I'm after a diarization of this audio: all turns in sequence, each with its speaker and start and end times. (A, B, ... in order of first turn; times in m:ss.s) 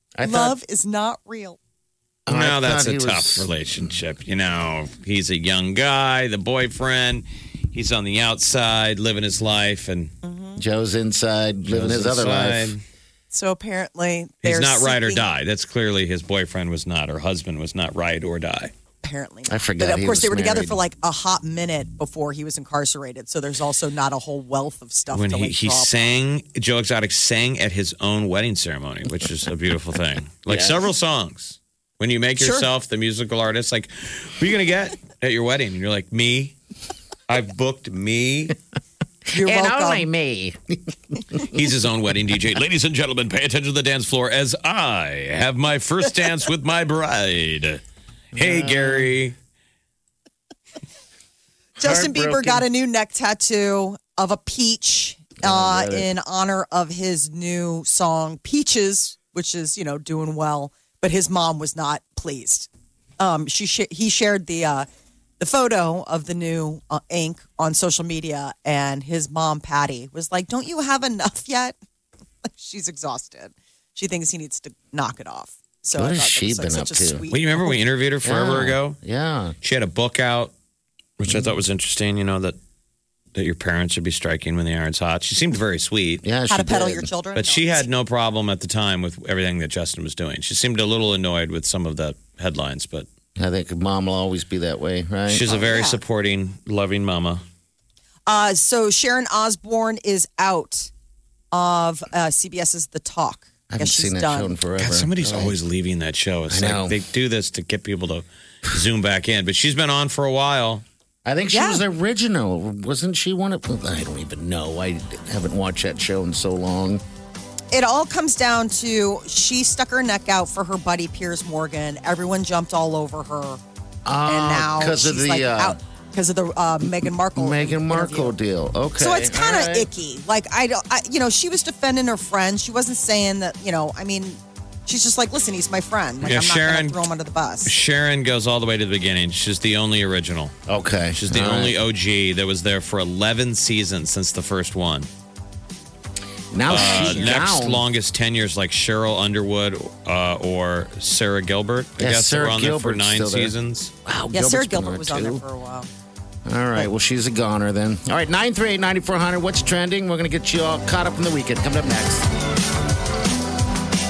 0:00.2-0:00.6 A
0:00.2-0:01.6 B
0:02.3-0:03.5 A
0:02.3-0:10.1 C
0:10.2-0:10.6 B
0:10.6-0:12.7 A
0:11.7-0:12.8 C
0:13.3-0:15.3 B
0:14.4-0:18.7 C
0:19.0-0:26.1 B
0:19.5-0:20.8 A
0:25.1-0:36.6 C
0:30.5-0:30.8 A
0:32.4-0:32.7 B
0:37.3-0:38.6 C
0:39.3-0:40.1 B
0:39.3-0:40.8 A
0:41.4-0:47.8 C
0:48.3-0:49.3 C
0:48.4-0:49.1 A
0:51.8-1:04.9 B
0:51.8-0:52.6 A
0:55.4-0:56.1 A
1:05.4-1:11.8 B
1:12.4-1:17.8 B
1:15.9-1:17.2 A
1:17.3-1:19.0 C
1:18.2-1:19.6 A
1:19.6-1:20.5 C
1:21.2-1:22.6 C
1:21.3-1:21.5 A
1:23.3-1:26.2 C
1:26.2-1:27.1 A
1:26.5-1:27.9 B
1:27.3-1:33.1 C
1:33.4-1:35.6 A
1:35.3-1:37.4 C
1:35.5-1:36.0 B
1:38.3-1:40.9 B
1:41.5-1:44.6 B
1:43.7-1:45.6 A
1:44.8-1:50.8 C
1:46.5-1:47.0 A
1:51.2-1:57.0 A
1:51.5-1:51.8 B
1:57.7-2:03.6 B
2:04.0-2:05.8 A
2:04.2-2:08.4 B
2:07.4-2:09.9 A
2:09.0-2:17.7 B
2:16.2-2:17.0 C
2:17.6-2:20.5 C
2:20.7-2:21.8 A
2:21.1-2:25.1 C
2:26.5-2:27.8 A
2:26.7-2:27.4 B
2:26.7-2:33.9 C
2:32.0-2:33.5 A
2:34.0-2:35.4 A
2:34.3-2:35.9 B
2:36.5-2:42.2 A